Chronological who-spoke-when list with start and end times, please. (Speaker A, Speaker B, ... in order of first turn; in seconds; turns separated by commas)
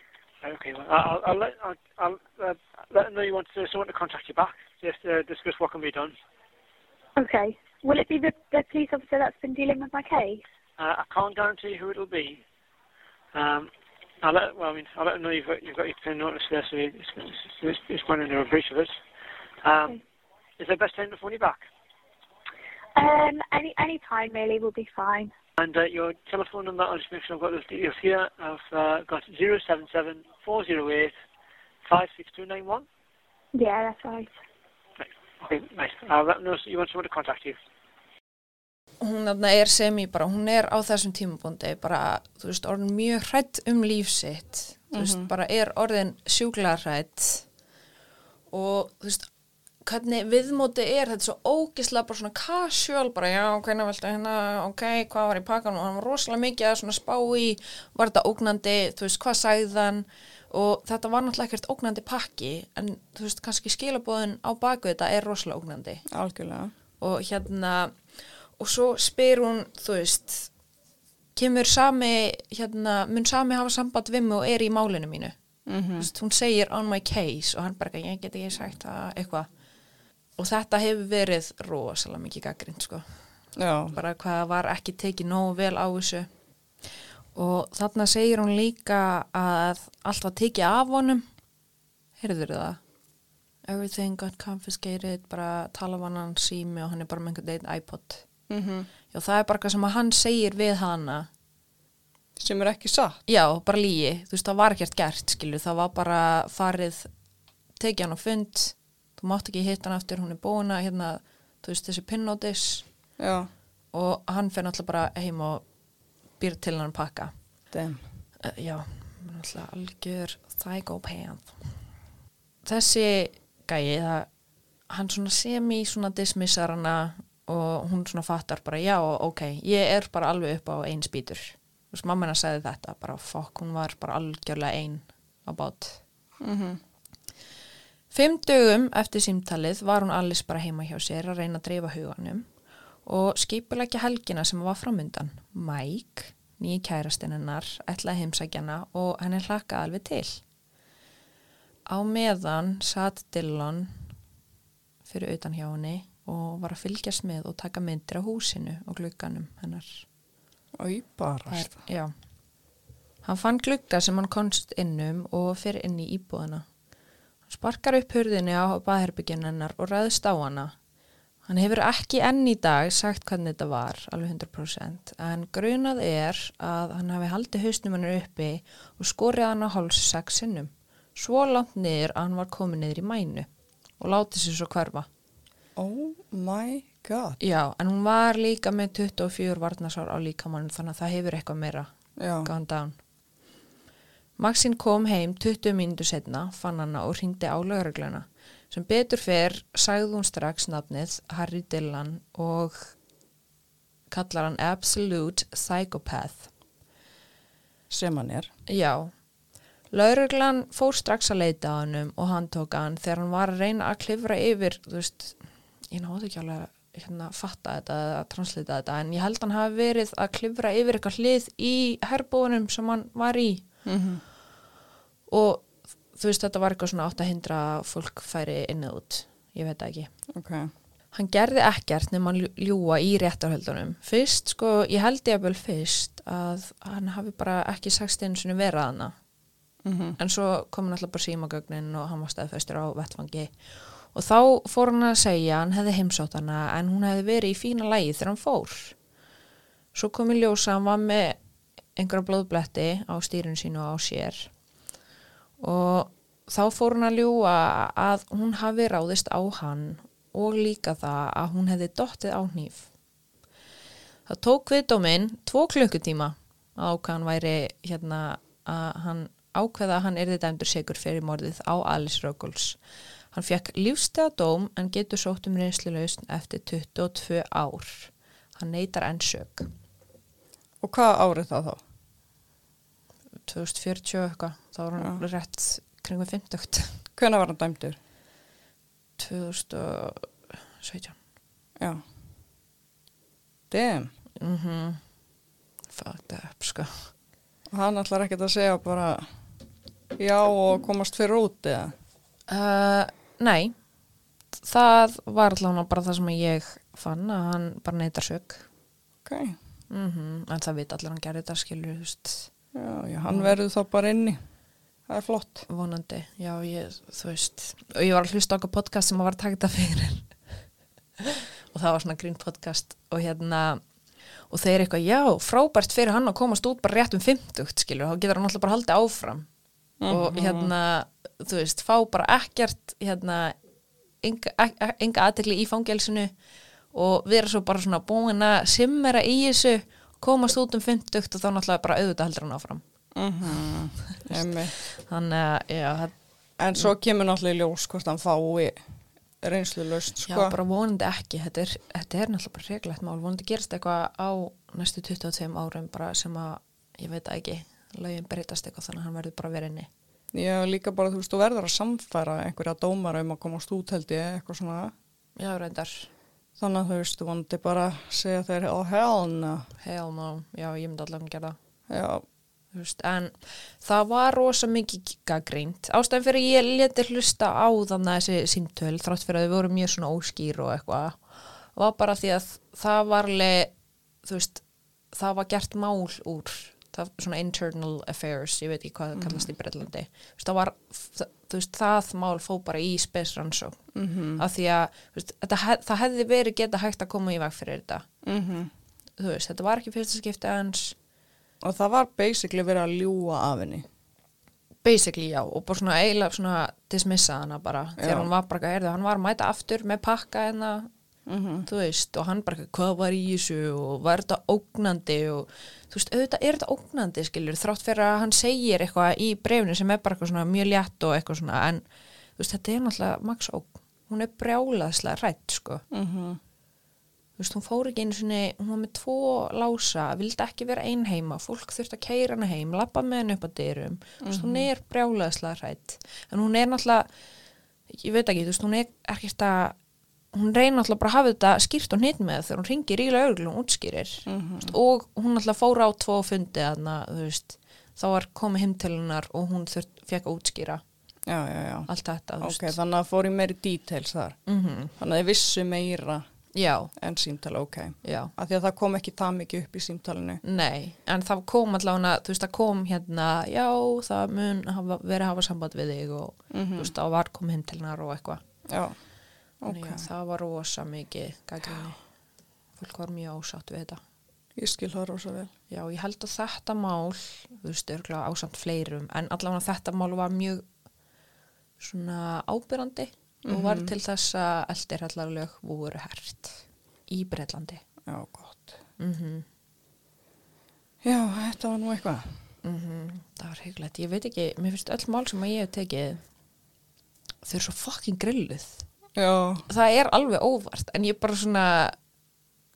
Speaker A: 0.4-6.1, Speaker B: 7.2-10.4, Speaker A: 10.8-12.4, Speaker A: 13.3-13.7, Speaker A: 14.2-18.9, Speaker A: 19.6-20.0, Speaker A: 20.6-21.6, Speaker B: 22.9-25.3, Speaker A: 25.6-31.1, Speaker A: 31.8-32.8, Speaker B: 33.5-34.3, Speaker A: 35.0-37.6, Speaker C: 39.0-47.4, Speaker D: 44.9-45.3, Speaker C: 48.5-49.3, Speaker C: 49.8-66.0, Speaker D: 66.1-66.7, Speaker C: 67.0-67.9, Speaker C: 68.6-70.5, Speaker C: 71.3-75.3, Speaker D: 75.7-76.1, Speaker C: 76.0-79.5, Speaker C: 80.4-83.0, Speaker D: 83.6-84.0, Speaker C: 83.9-86.3, Speaker C: 87.3-91.2, Speaker C: 92.2-92.8, Speaker C: 93.7-98.2, Speaker D: 98.5-98.9, Speaker C: 99.1-101.3, Speaker D: 102.4-103.2, Speaker C: 103.2-107.1, Speaker C: 107.8-112.8, Speaker D: 113.2-113.5, Speaker C: 113.9-115.6, Speaker C: 116.4-117.3, Speaker D: 117.7-118.0, Speaker C: 118.4-121.7, Speaker C: 122.6-124.3, Speaker C: 124.9-136.0, Speaker D: 136.4-136.8, Speaker C: 138.1-142.4, Speaker C: 143.1-150.4, Speaker C: 151.9-153.9, Speaker C: 155.1-160.0, Speaker D: 160.8-161.7, Speaker C: 161.5-162.1, Speaker C: 163.2-166.6, Speaker C: 167.5-170.7, Speaker C: 171.5-183.5, Speaker C: 184.0-185.1, Speaker D: 185.8-187.4, Speaker C: 187.4-191.9, Speaker D: 192.2-192.5, Speaker C: 192.4-193.0, Speaker C: 194.4-202.9, Speaker C: 204.1-206.5, Speaker D: 207.9-208.5, Speaker C: 208.7-209.1, Speaker C: 209.9-215.4, Speaker C: 215.9-223.6, Speaker D: 223.8-224.2, Speaker C: 225.3-230.1, Speaker D: 230.3-230.7, Speaker C: 231.1-239.1, Speaker D: 239.8-240.2, Speaker C: 240.2-243.5, Speaker C: 244.1-248.9, Speaker C: 249.9-251.4, Speaker C: 252.0-254.5, Speaker C: 255.6-262.9, Speaker C: 264.3-272.8, Speaker C: 273.3-279.7, Speaker D: 280.8-281.8, Speaker C: 283.5-286.9, Speaker D: 287.1-288.0, Speaker C: 289.2-290.3, Speaker C: 290.8-291.1, Speaker D: 293.7-294.1, Speaker C: 294.4-295.0, Speaker C: 295.9-297.1, Speaker D: 297.7-299.3, Speaker D: 300.2-301.9, Speaker C: 302.5-303.7, Speaker C: 304.6-308.6, Speaker D: 309.2-309.6, Speaker C: 309.9-312.5, Speaker D: 312.7-314.4, Speaker C: 313.3-313.6, Speaker D: 315.1-315.6, Speaker C: 315.7-320.3, Speaker C: 321.2-323.8, Speaker C: 324.5-329.5, Speaker D: 330.0-330.7, Speaker C: 330.1-333.5, Speaker C: 334.2-336.3, Speaker C: 336.9-342.8, Speaker D: 343.1-344.8, Speaker C: 344.1-346.1, Speaker D: 346.6-348.8, Speaker D: 349.4-350.5, Speaker C: 350.3-359.9, Speaker D: 360.3-364.9, Speaker C: 365.4-366.1, Speaker D: 366.6-369.7, Speaker C: 369.8-371.6, Speaker D: 371.9-372.2, Speaker C: 372.7-381.2, Speaker C: 381.7-383.7, Speaker C: 384.2-384.6, Speaker C: 385.1-393.8, Speaker D: 389.1-389.4, Speaker D: 393.9-394.4, Speaker C: 394.4-398.1, Speaker D: 398.2-398.7, Speaker C: 399.2-400.9, Speaker D: 401.6-403.8, Speaker C: 404.8-410.9, Speaker D: 408.0-408.3, Speaker D: 411.3-411.7, Speaker C: 411.6-421.8, Speaker C: 422.4-425.8, Speaker D: 425.9-426.4, Speaker C: 427.4-437.1, Speaker D: 434.2-434.7, Speaker C: 437.9-439.8, Speaker C: 440.3-450.8, Speaker D: 444.2-444.7, Speaker D: 451.3-451.9, Speaker C: 451.9-452.8, Speaker D: 452.4-454.4, Speaker C: 454.4-454.9, Speaker D: 455.0-456.2, Speaker C: 456.5-456.9, Speaker D: 456.9-460.4, Speaker C: 458.0-458.3, Speaker C: 460.4-468.4, Speaker D: 466.5-466.9, Speaker D: 468.7-468.9, Speaker D: 469.6-470.0, Speaker C: 469.7-472.0, Speaker C: 472.8-474.0, Speaker D: 474.6-475.5, Speaker C: 475.7-480.6, Speaker C: 481.8-487.8, Speaker D: 483.4-483.9, Speaker D: 488.1-488.8, Speaker C: 489.0-489.4, Speaker D: 491.0-492.2, Speaker C: 492.6-496.2, Speaker C: 497.4-498.8, Speaker D: 499.1-499.6, Speaker C: 499.7-501.9